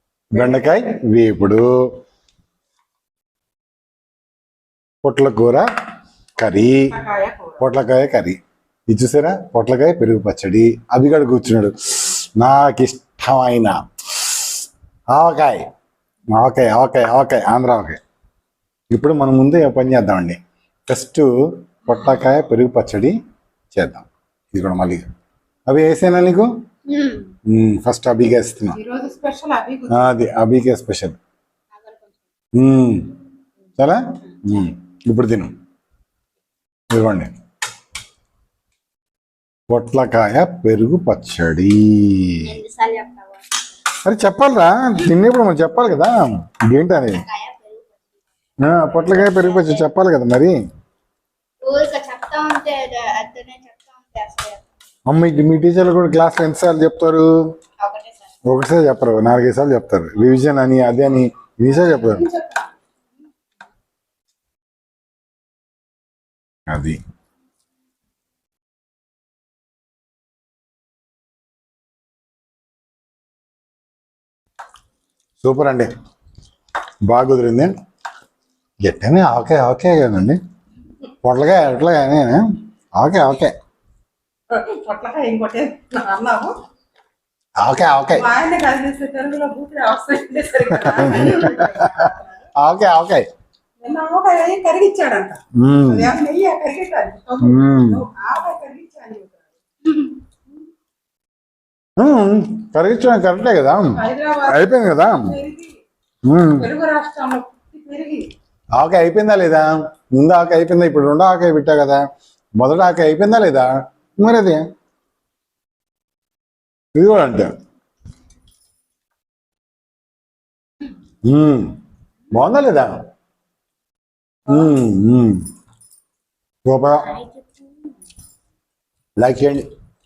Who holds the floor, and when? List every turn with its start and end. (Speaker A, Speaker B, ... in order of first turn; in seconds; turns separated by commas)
Speaker A: 0.3-1.9, Speaker A: 5.0-5.7, Speaker A: 6.4-7.0, Speaker B: 6.9-7.6, Speaker A: 7.6-8.4, Speaker A: 8.9-14.5, Speaker A: 15.1-15.7, Speaker A: 16.3-18.0, Speaker A: 18.9-23.2, Speaker A: 23.7-25.1, Speaker A: 25.7-26.5, Speaker C: 26.9-27.3, Speaker A: 27.5-28.8, Speaker B: 28.8-30.2, Speaker A: 29.9-31.2, Speaker A: 32.5-33.1, Speaker A: 33.8-35.5, Speaker A: 36.9-37.3, Speaker A: 39.7-42.6, Speaker C: 42.4-43.5, Speaker A: 44.0-47.2, Speaker C: 47.2-48.2, Speaker A: 48.6-50.5, Speaker C: 49.0-49.9, Speaker C: 51.6-54.6, Speaker A: 55.1-57.3, Speaker C: 57.8-58.3, Speaker A: 58.5-62.3, Speaker B: 61.7-62.7, Speaker A: 66.7-67.0, Speaker A: 75.4-75.9, Speaker A: 77.1-77.7, Speaker A: 78.8-80.4, Speaker A: 81.2-82.4, Speaker A: 83.0-83.5, Speaker B: 84.5-86.6, Speaker A: 87.6-88.3, Speaker B: 88.1-92.5, Speaker A: 90.7-93.3, Speaker B: 93.8-99.6, Speaker A: 95.5-96.1, Speaker A: 97.4-98.0, Speaker A: 102.0-105.4, Speaker B: 103.9-105.8, Speaker A: 106.3-106.7, Speaker B: 106.5-108.3, Speaker A: 108.8-112.1, Speaker A: 112.6-114.6, Speaker A: 117.0-117.5, Speaker A: 121.2-121.8, Speaker A: 122.3-123.0, Speaker A: 124.5-125.4, Speaker A: 126.7-127.2, Speaker C: 127.0-127.7, Speaker A: 129.2-129.7